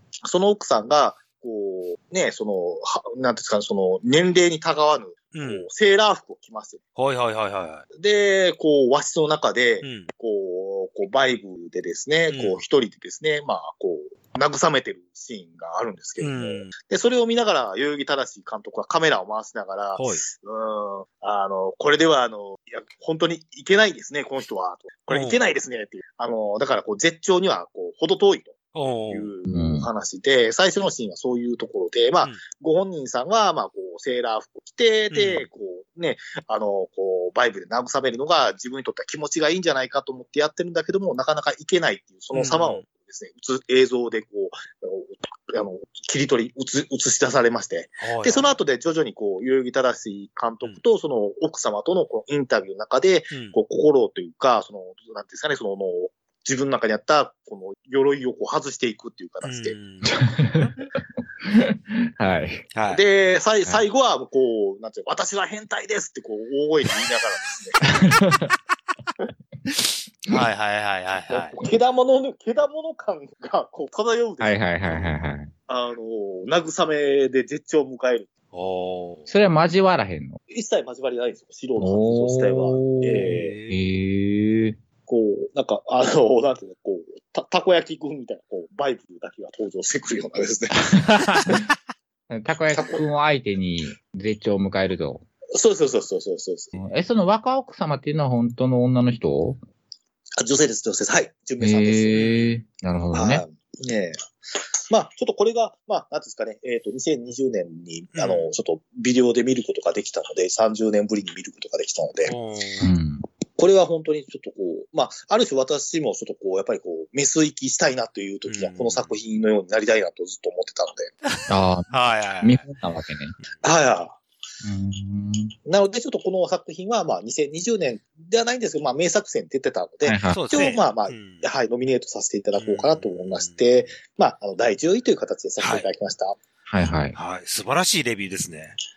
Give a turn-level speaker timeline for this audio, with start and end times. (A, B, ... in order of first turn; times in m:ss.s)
0:00.2-0:06.8 A
0:05.3-0:05.7 B
0:07.0-0:07.9 B
0:07.9-0:28.6 A
0:09.8-0:10.1 B
0:12.3-0:12.6 B
0:16.2-0:16.7 B
0:20.0-0:20.2 B
0:25.1-0:25.4 B
0:28.7-0:29.3 B
0:29.1-0:59.8 A
0:29.5-0:29.9 C
0:35.1-0:35.4 B
0:42.3-0:42.8 B
0:48.0-0:48.5 B
0:59.4-1:00.1 B
1:00.1-1:00.8 C
1:01.4-1:02.7 C
1:02.7-1:03.0 B
1:02.9-1:07.8 A
1:07.9-1:08.5 C
1:09.8-1:11.6 B
1:11.3-1:14.7 A
1:14.4-1:15.5 C
1:14.8-1:15.2 B
1:15.7-1:18.3 A
1:18.5-1:19.3 B
1:19.3-1:20.4 C
1:20.5-1:23.6 A
1:21.8-1:24.8 C
1:23.2-1:23.8 B
1:25.1-1:31.1 A
1:30.9-1:31.6 C
1:32.3-1:35.2 C
1:32.7-1:33.0 A
1:35.6-1:36.7 A
1:36.7-1:39.6 C
1:40.4-1:42.3 A
1:41.6-1:43.4 C
1:42.2-1:42.5 B
1:43.1-1:52.4 A
1:48.1-1:48.5 B
1:52.3-1:52.9 B
1:52.8-1:53.2 C
1:53.6-2:01.1 A
1:58.5-1:59.1 B
2:01.3-2:02.7 B
2:01.5-2:03.3 C
2:03.6-2:04.2 A
2:04.6-2:05.5 C
2:05.7-2:16.4 A
2:10.1-2:10.4 C
2:10.3-2:11.4 B
2:12.6-2:13.9 B
2:15.6-2:15.8 B
2:16.7-2:17.2 C
2:17.1-2:18.7 B